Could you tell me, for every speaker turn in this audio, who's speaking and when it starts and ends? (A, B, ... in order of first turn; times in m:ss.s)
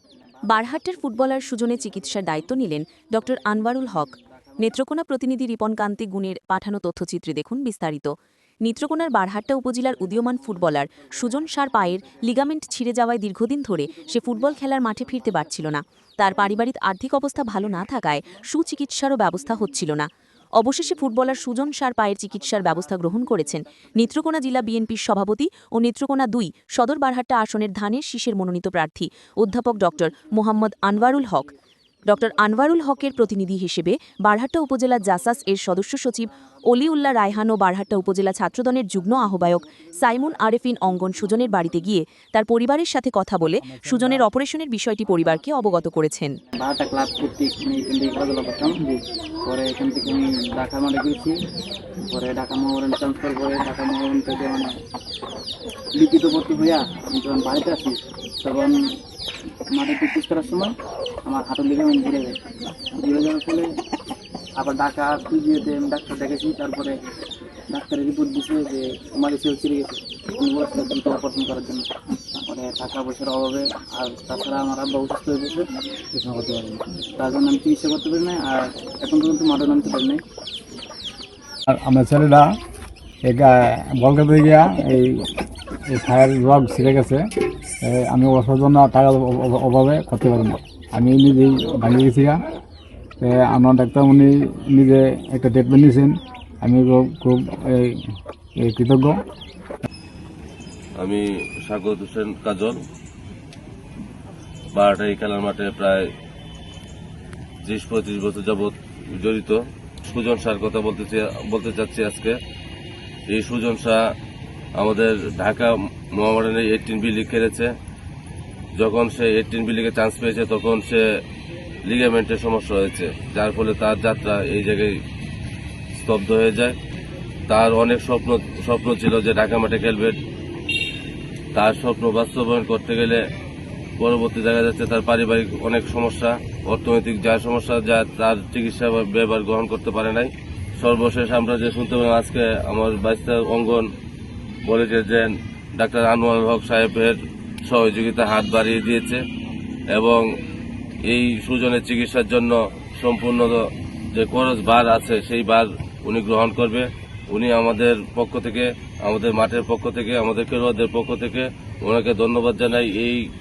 0:00.3-0:02.6 A
0:00.5-0:08.1 B
0:03.3-0:04.8 A
0:08.6-0:31.5 B
0:10.4-0:12.5 A
0:14.0-0:15.7 A
0:19.1-0:19.8 A
0:20.9-0:21.3 A
0:22.4-0:24.7 A
0:29.8-0:31.5 A
0:32.1-0:46.4 B
0:32.4-0:33.2 A
0:35.2-0:36.0 A
0:43.4-0:44.2 C
0:46.6-0:51.4 A
0:52.1-0:54.7 A
0:56.0-0:58.8 A
0:59.7-1:02.4 A
1:03.0-1:03.7 A
1:04.6-1:07.0 A
1:07.7-1:11.9 A
1:12.4-1:15.6 A
1:16.2-1:20.2 A
1:16.2-1:16.6 C
1:21.7-1:22.5 C
1:23.2-1:25.3 C
1:25.9-1:27.2 C
1:27.8-1:32.4 C
1:33.2-1:38.0 C
1:38.6-1:39.2 C
1:41.0-1:42.8 D
1:44.7-1:46.1 D
1:47.6-1:52.4 D
1:53.3-1:54.0 D
1:54.8-1:57.7 D
1:58.8-2:01.0 D
2:01.9-2:05.0 D
2:06.0-2:06.8 D
2:07.5-2:10.2 D
2:11.5-2:13.2 D
2:14.0-2:23.9 D
2:24.6-2:29.2 D
2:29.9-2:30.3 D
2:31.0-2:33.6 D
2:34.1-2:43.2 D